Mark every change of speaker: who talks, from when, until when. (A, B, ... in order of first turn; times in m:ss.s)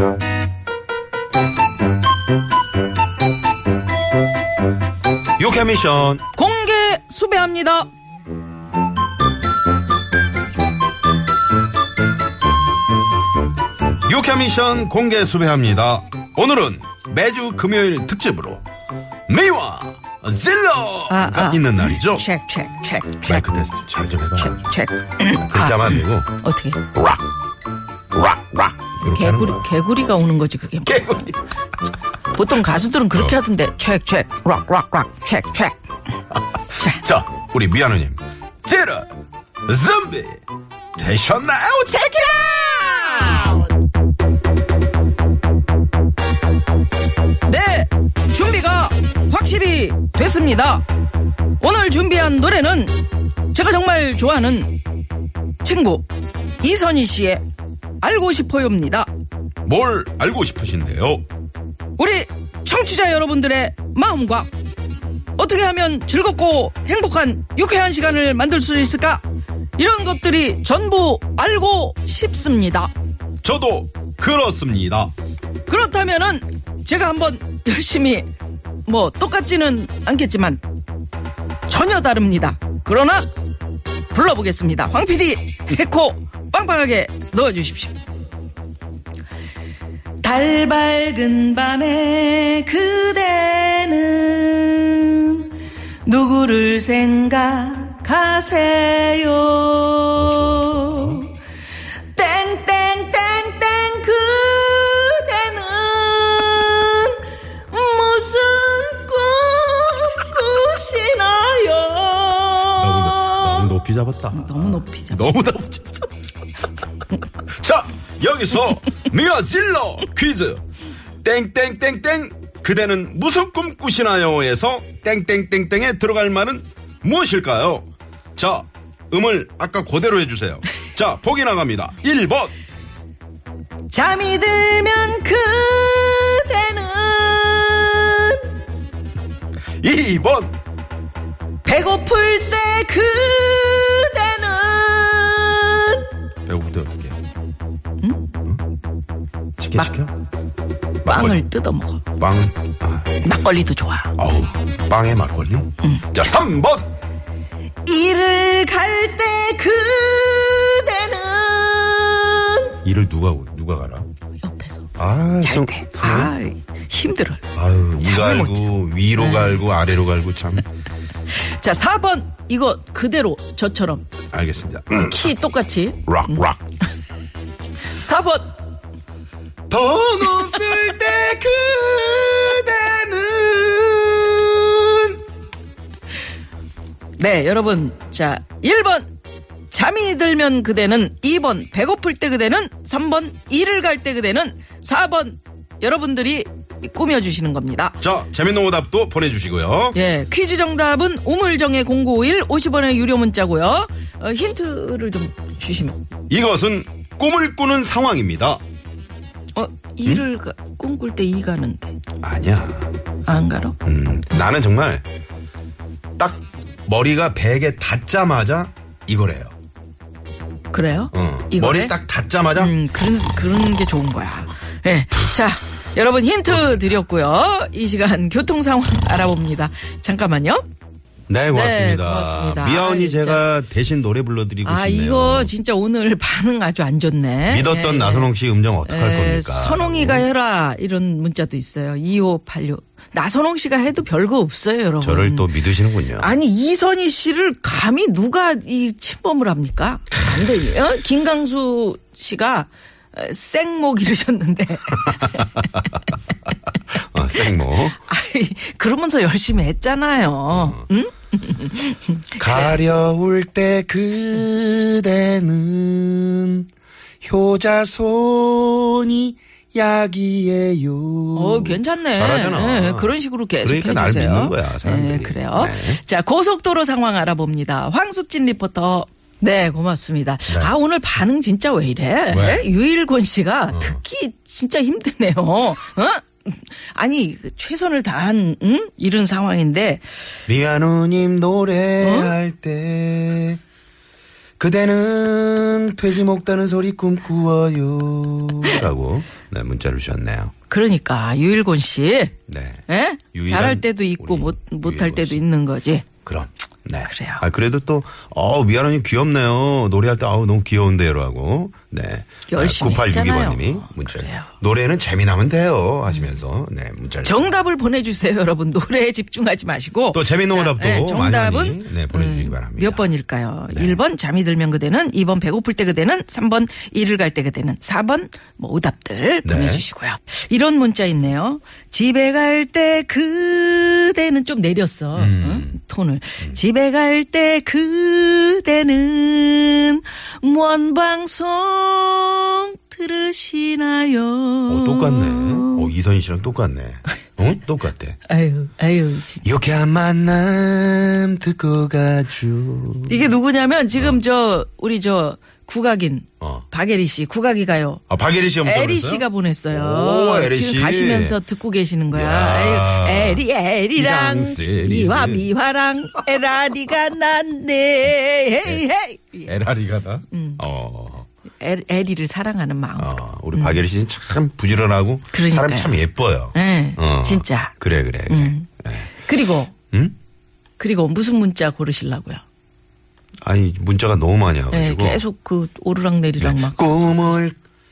0:05.4-0:06.2 A
0:06.3-0:07.9 B
0:14.1-0:18.6 A
0:19.3-0:22.2 A
0:21.1-0:23.5 B
0:23.3-0:24.6 A
0:24.4-0:26.8 B
0:25.4-0:26.3 A
0:26.9-0:27.2 A
0:28.1-0:29.6 A
0:29.0-0:31.3 B
0:30.8-0:31.4 A
0:32.3-0:35.8 B
0:36.7-0:39.1 A
0:36.8-0:37.0 B
0:39.7-0:40.4 A
0:41.0-0:42.2 A
0:41.9-0:43.7 B
0:47.5-0:50.8 B
0:51.6-0:53.0 B
0:53.5-0:54.8 B
0:55.6-0:56.1 B
0:56.6-0:57.4 B
0:58.0-0:59.1 B
0:59.6-1:01.2 A
1:02.0-1:04.5 B
1:05.4-1:09.2 B
1:09.8-1:12.9 B
1:13.4-1:15.1 A
1:15.7-1:18.3 B
1:18.9-1:20.6 B
1:21.7-1:23.3 B
1:24.1-1:28.0 B
1:30.2-1:35.5 B
1:36.0-1:41.4 B
1:40.2-1:41.2 A
1:42.1-1:53.7 B
1:52.8-1:56.1 A
1:54.3-1:55.5 B
1:57.4-2:00.6 A
2:01.2-2:12.5 A
2:13.9-2:18.5 B
2:19.8-2:20.6 A
2:21.6-2:26.1 B
2:26.5-2:27.2 A
2:29.6-2:30.1 A
2:31.0-2:31.4 A
2:31.0-2:32.0 B
2:32.2-2:33.1 A
2:33.2-2:34.1 B
2:34.2-2:36.9 A
2:35.8-2:36.1 B
2:37.8-2:42.8 B
2:42.8-2:44.1 A
2:44.4-2:44.9 B
2:45.0-2:46.3 A
2:45.4-2:47.4 B
2:47.6-2:50.6 A
2:48.0-2:49.6 B
2:51.3-2:54.1 B
2:54.3-2:55.3 A
2:55.1-2:56.1 B
2:56.0-2:56.6 A
2:57.9-2:58.6 B
2:59.7-3:05.2 A
3:07.2-3:09.1 B
3:09.7-3:18.0 B
3:18.0-3:20.0 A
3:19.9-3:26.0 B
3:26.3-3:28.6 A
3:29.6-3:32.0 B
3:32.2-3:32.9 A
3:33.3-3:33.8 B
3:33.8-3:35.0 A
3:36.2-3:39.5 A
3:40.7-3:42.0 B
3:41.1-3:42.8 A
3:42.6-3:50.6 B
3:46.5-3:46.9 A
3:51.3-3:55.5 A
3:51.5-3:53.4 B
3:54.6-3:58.3 B
3:57.5-4:00.3 A
3:58.8-4:05.6 B
4:05.0-4:06.3 A
4:06.2-4:15.8 B
4:15.0-4:16.0 A
4:17.0-4:18.0 A
4:17.7-4:22.8 B
4:20.5-4:20.9 A
4:22.4-4:26.7 A
4:27.2-4:36.0 A
4:31.4-4:50.2 B
4:40.5-4:40.7 A
4:42.3-4:42.6 A
4:43.7-4:44.0 A
4:50.5-4:53.6 A
4:52.0-4:52.4 B
4:54.6-5:00.5 A
5:00.7-5:02.3 B
5:02.5-5:05.4 A
5:02.9-5:06.1 B
5:06.2-5:17.6 A
5:07.0-5:07.4 B
5:12.5-5:14.5 B
5:16.1-5:16.4 B
5:17.2-5:45.9 B
5:20.1-5:23.1 A
5:23.7-5:24.0 A
5:29.4-5:29.8 A
5:35.2-5:35.8 A
5:44.7-5:48.2 A
5:48.3-5:49.4 B
5:49.4-5:53.4 A
5:53.1-5:58.0 B
5:53.9-5:54.2 A
5:58.1-6:01.4 A
5:58.6-6:09.5 B
6:02.1-6:05.5 A
6:09.5-6:11.3 A
6:10.3-6:10.6 B
6:11.6-6:13.8 B
6:13.0-6:19.1 A
6:15.3-6:16.0 B
6:16.5-6:17.8 B
6:18.3-6:19.7 B
6:20.8-6:22.4 B
6:23.4-6:25.2 A
6:24.7-6:27.2 B
6:26.4-6:27.6 A